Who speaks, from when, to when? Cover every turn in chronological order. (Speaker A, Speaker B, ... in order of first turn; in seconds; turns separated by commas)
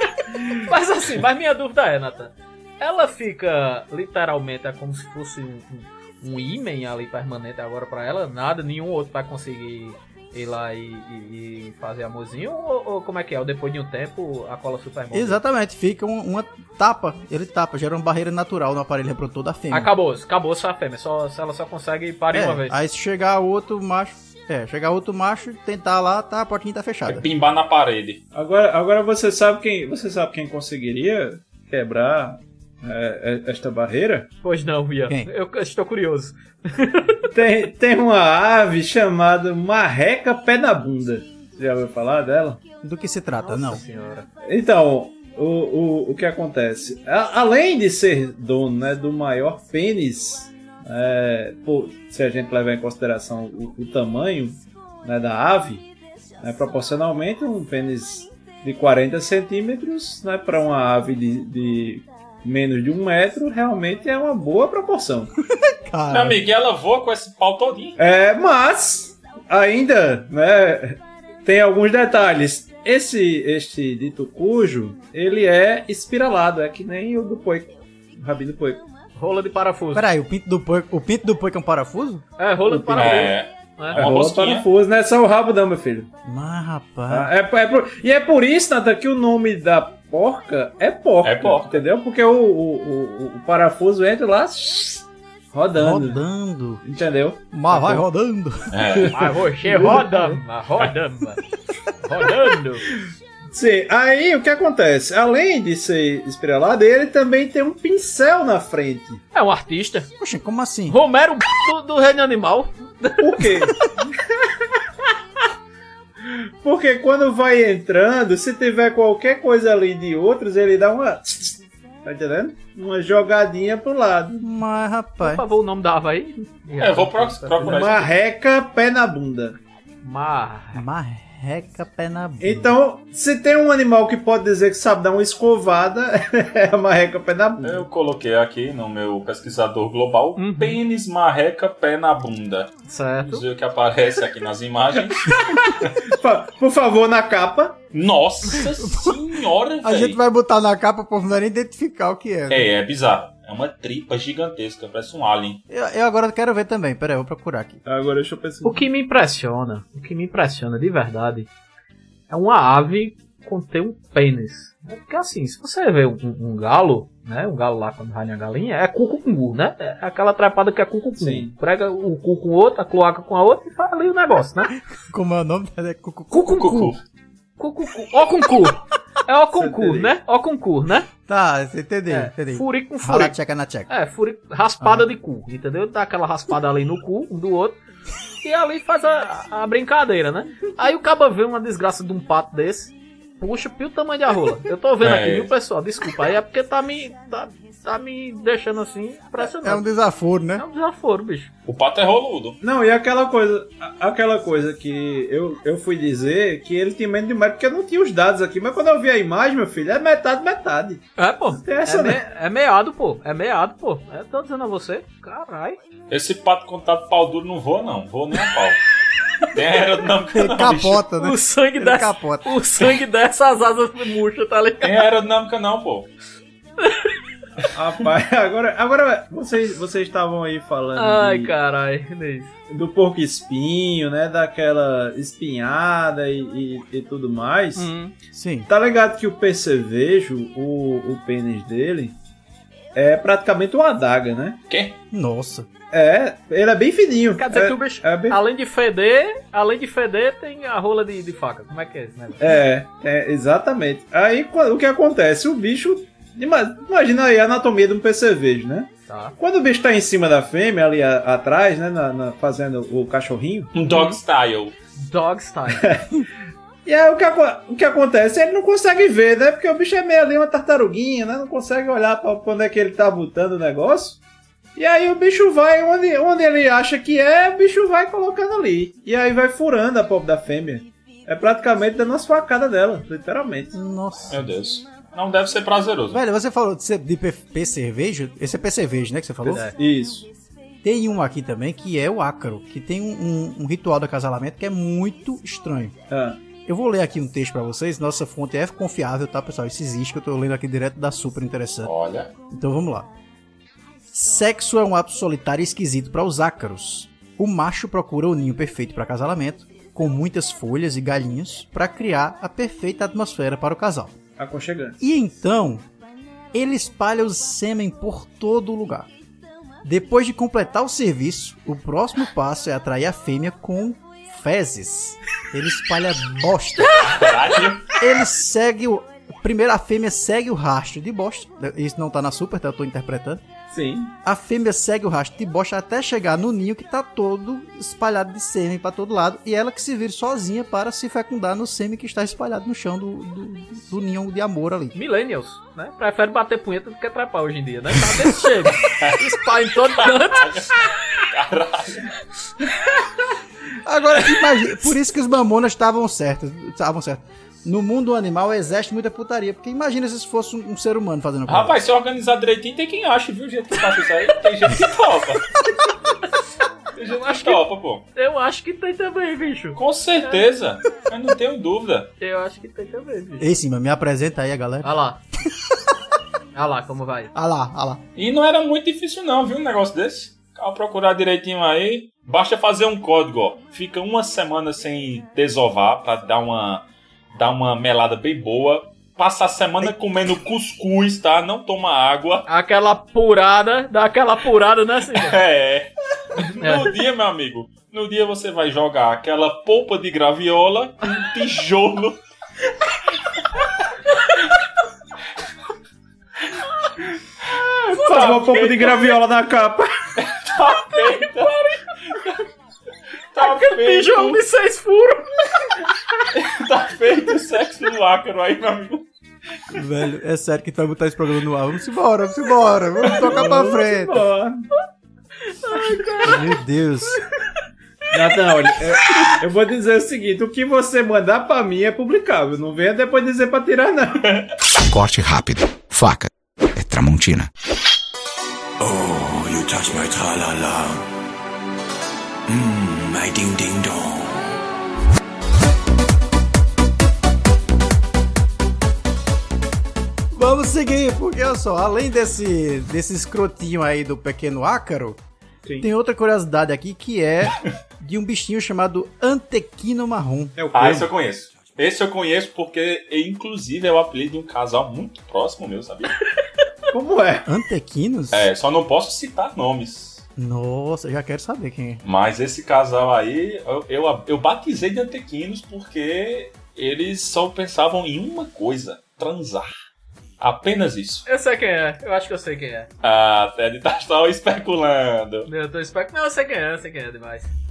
Speaker A: 0.5-15.4, Speaker B: 15.1-19.9, Speaker A: 19.7-22.7, Speaker B: 22.3-27.3, Speaker C: 27.1-28.2, Speaker D: 28.3-34.3, Speaker A: 34.4-37.2, Speaker D: 37.3-42.6, Speaker B: 42.8-43.8, Speaker A: 43.4-44.3, Speaker D: 44.4-55.9, Speaker D: 56.4-65.3, Speaker B: 65.5-66.4, Speaker C: 66.1-68.0, Speaker D: 68.0-78.8, Speaker A: 79.2-80.0, Speaker B: 79.9-82.2, Speaker A: 82.4-84.0, Speaker D: 82.7-83.3, Speaker C: 83.0-84.7, Speaker D: 83.9-86.1, Speaker B: 86.2-87.3, Speaker D: 87.1-96.2, Speaker C: 91.2-91.8, Speaker B: 95.7-96.8, Speaker D: 96.8-98.0, Speaker B: 97.5-99.0, Speaker C: 98.7-99.2, Speaker D: 99.0-100.3, Speaker A: 99.1-101.4, Speaker B: 99.9-100.3, Speaker A: 102.0-102.8, Speaker D: 103.5-109.2, Speaker A: 109.3-110.1, Speaker B: 110.2-111.0, Speaker A: 110.9-113.6, Speaker D: 113.2-114.4, Speaker D: 116.3-124.4, Speaker B: 124.4-125.4, Speaker A: 125.2-127.8, Speaker C: 126.8-128.1, Speaker D: 127.6-129.6, Speaker A: 130.0-130.8, Speaker B: 130.7-132.7, Speaker D: 132.4-137.9, Speaker C: 137.6-142.7, Speaker A: 140.4-140.8, Speaker A: 142.9-143.4, Speaker C: 143.2-145.9, Speaker D: 145.6-147.8, Speaker C: 147.9-150.2, Speaker B: 148.8-149.2, Speaker B: 149.8-152.7, Speaker C: 152.5-155.6, Speaker B: 155.7-157.8, Speaker D: 157.8-158.8, Speaker A: 158.6-161.5, Speaker A: 162.3-174.7, Speaker D: 171.2-171.5, Speaker B: 175.1-176.9, Speaker A: 176.3-176.9, Speaker C: 176.4-177.0, Speaker A: 177.6-181.1, Speaker D: 179.6-180.1, Speaker B: 181.3-183.9, Speaker A: 182.1-183.3, Speaker A: 183.9-187.8, Speaker B: 184.8-185.1, Speaker A: 188.4-199.8, Speaker C: 195.0-195.5, Speaker B: 199.4-200.6, Speaker A: 200.6-201.5, Speaker C: 201.7-202.6, Speaker D: 202.6-212.2, Speaker A: 211.2-215.8, Speaker C: 216.1-218.8, Speaker C: 219.5-221.0, Speaker B: 220.3-222.5, Speaker A: 221.2-225.1, Speaker C: 224.8-226.1, Speaker D: 227.7-231.5, Speaker A: 230.9-232.5, Speaker D: 232.7-237.9, Speaker A: 237.8-238.1, Speaker B: 238.3-238.7, Speaker D: 238.7-242.1, Speaker D: 242.9-244.6, Speaker C: 244.7-245.0, Speaker B: 245.1-245.7, Speaker D: 245.9-248.4, Speaker A: 247.4-252.4, Speaker D: 252.4-263.7, Speaker A: 259.1-259.4, Speaker C: 263.7-264.7, Speaker A: 263.9-264.2, Speaker A: 265.0-265.9, Speaker D: 265.8-266.1, Speaker D: 266.9-274.2, Speaker D: 274.8-283.8, Speaker B: 283.7-284.4, Speaker C: 284.3-286.2, Speaker B: 286.1-289.7, Speaker A: 289.4-289.7, Speaker D: 289.7-290.3, Speaker B: 290.8-295.9, Speaker D: 296.1-296.4, Speaker B: 296.6-301.9, Speaker C: 301.8-302.3, Speaker B: 302.5-303.1, Speaker B: 304.1-314.2, Speaker D: 314.4-315.0, Speaker B: 315.0-315.9, Speaker B: 316.5-319.1, Speaker B: 319.8-327.1, Speaker C: 327.0-327.9, Speaker B: 328.0-333.4, Speaker D: 333.7-334.1, Speaker B: 334.2-344.9, Speaker A: 344.9-350.9, Speaker C: 349.9-352.1, Speaker B: 353.8-361.8, Speaker C: 361.5-365.5, Speaker C: 366.9-368.0, Speaker A: 367.1-367.6, Speaker A: 368.1-370.4, Speaker C: 369.8-372.1, Speaker A: 372.2-373.5, Speaker B: 373.4-375.6, Speaker A: 374.8-375.2, Speaker A: 376.5-377.3, Speaker B: 377.3-378.0, Speaker C: 378.1-386.8, Speaker C: 387.3-392.4, Speaker A: 392.5-395.4, Speaker C: 395.1-402.2, Speaker A: 396.5-396.9, Speaker C: 407.9-409.1, Speaker D: 407.9-409.9, Speaker C: 410.2-411.6, Speaker A: 411.4-411.8, Speaker C: 412.1-412.4, Speaker C: 413.3-414.4, Speaker A: 413.4-415.6, Speaker C: 416.3-419.1, Speaker B: 419.7-424.3, Speaker D: 423.2-424.6, Speaker A: 425.4-426.4, Speaker B: 426.2-427.2, Speaker D: 428.1-434.3, Speaker E: 434.9-437.5, Speaker F: 438.8-441.0, Speaker F: 442.5-444.4, Speaker B: 450.3-455.2, Speaker B: 455.8-460.6, Speaker D: 460.6-461.1, Speaker C: 460.7-466.1, Speaker D: 466.9-467.5, Speaker B: 467.4-468.5, Speaker C: 468.3-470.2, Speaker B: 470.4-472.0, Speaker C: 472.0-479.7, Speaker C: 480.4-481.2, Speaker A: 481.2-482.9, Speaker C: 483.0-485.5, Speaker A: 485.4-487.5